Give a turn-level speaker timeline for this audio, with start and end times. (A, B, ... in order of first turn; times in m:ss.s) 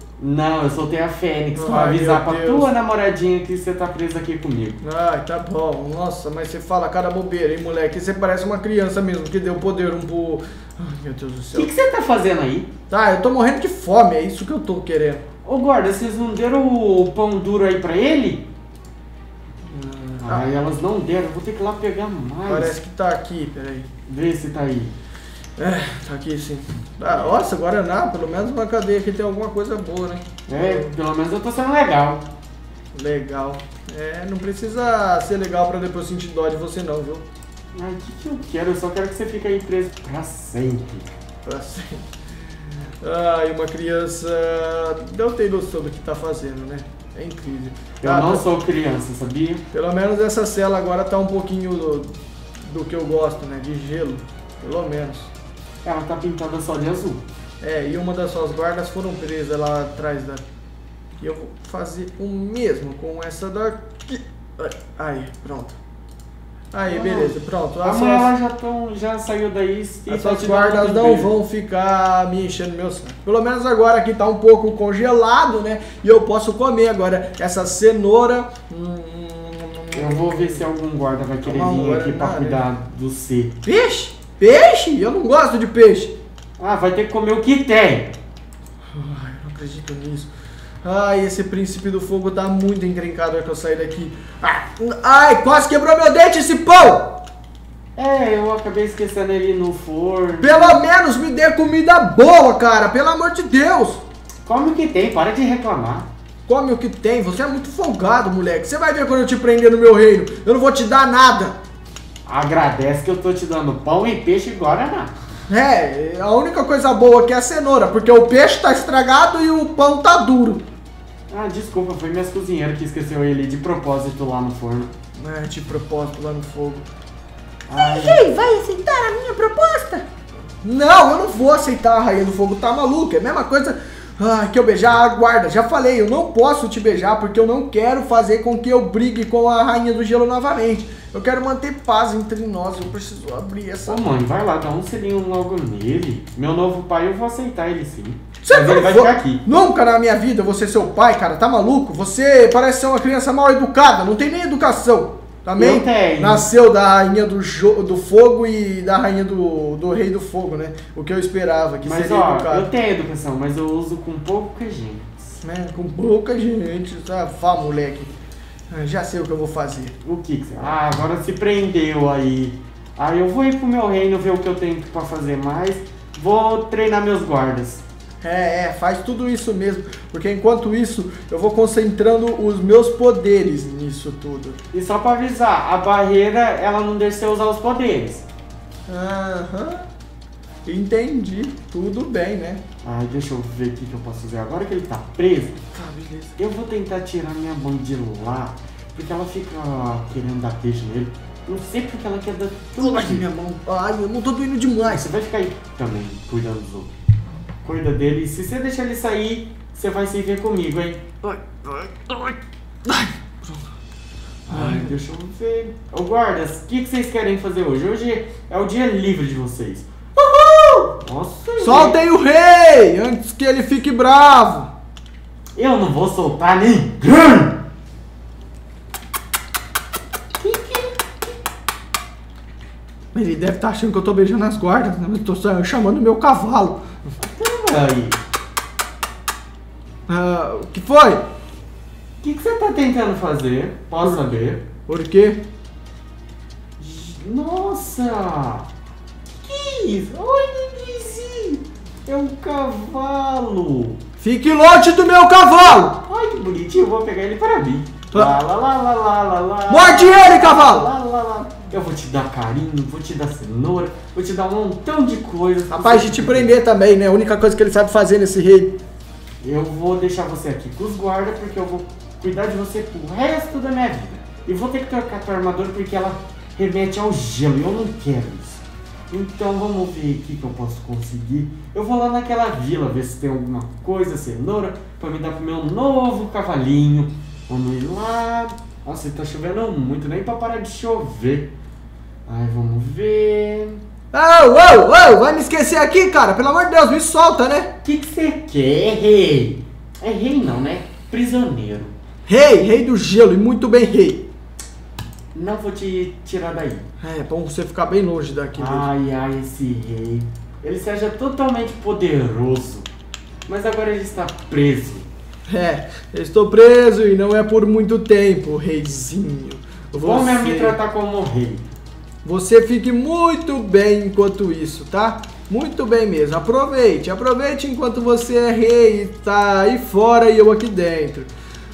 0:00.2-0:04.8 A
0:01.5-0:02.7 B
0:04.8-0:11.7 B
0:11.5-0:12.7 A
0:12.9-0:15.2 B
0:15.4-0:18.5 A
0:19.6-0:20.4 B
0:20.2-0:22.8 A
0:22.5-0:23.9 B
0:24.1-0:25.0 A
0:25.6-0:30.9 B
0:27.1-0:27.4 A
0:30.5-0:32.2 A
0:32.9-0:37.2 B
0:37.7-0:41.1 A
0:41.4-0:42.1 B
0:43.0-0:48.4 B
0:48.0-0:49.6 A
0:49.7-0:55.3 B
0:55.8-0:57.2 A
0:57.6-1:00.4 B
1:01.2-1:05.8 B
1:06.7-1:08.3 B
1:06.9-1:11.3 A
1:10.1-1:20.6 B
1:19.9-1:23.5 A
1:21.4-1:22.6 B
1:23.6-1:26.1 B
1:26.6-1:28.2 A
1:28.9-1:30.3 B
1:30.8-1:37.2 B
1:38.0-1:40.8 A
1:40.4-1:44.0 B
1:44.4-1:46.1 A
1:46.5-1:51.6 B
1:52.2-1:55.1 A
1:55.5-2:00.6 B
2:01.3-2:04.9 A
2:05.2-2:06.8 B
2:07.7-2:08.2 A
2:07.7-2:10.0 C
2:10.6-2:24.0 B
2:23.8-2:29.4 A
2:28.4-2:42.7 B
2:35.6-2:36.5 A
2:41.8-2:45.3 A
2:45.4-2:48.1 B
2:48.7-2:50.0 B
2:50.0-2:57.8 A
2:58.2-3:04.6 B
3:04.7-3:08.3 A
3:08.9-3:09.9 B
3:10.6-3:12.6 B
3:12.8-3:15.6 A
3:15.7-3:16.4 B
3:16.4-3:23.2 A
3:22.8-3:25.1 B
3:24.8-3:26.9 A
3:27.6-3:31.0 A
3:31.2-3:33.6 B
3:34.5-3:35.0 B
3:34.5-3:42.0 A
3:41.6-3:44.7 B
3:45.5-3:47.6 A
3:50.4-3:51.4 A
3:53.1-3:56.8 B
3:57.2-3:58.2 A
4:00.1-4:01.2 B
4:02.2-4:04.6 A
4:04.9-4:05.4 B
4:06.8-4:08.7 A
4:09.3-4:14.0 A
4:14.2-4:16.0 B
4:15.9-4:26.5 A
4:19.7-4:20.9 B
4:25.7-4:28.8 B
4:29.4-4:51.5 A
4:52.3-4:53.8 A
4:54.1-4:57.7 B
4:57.8-5:01.9 A
5:02.3-5:04.3 B
5:05.3-5:06.8 A
5:07.0-5:08.9 B
5:08.6-5:12.9 A
5:13.5-5:15.1 A
5:15.5-5:20.8 B
5:20.0-5:21.7 A
5:22.2-5:31.3 B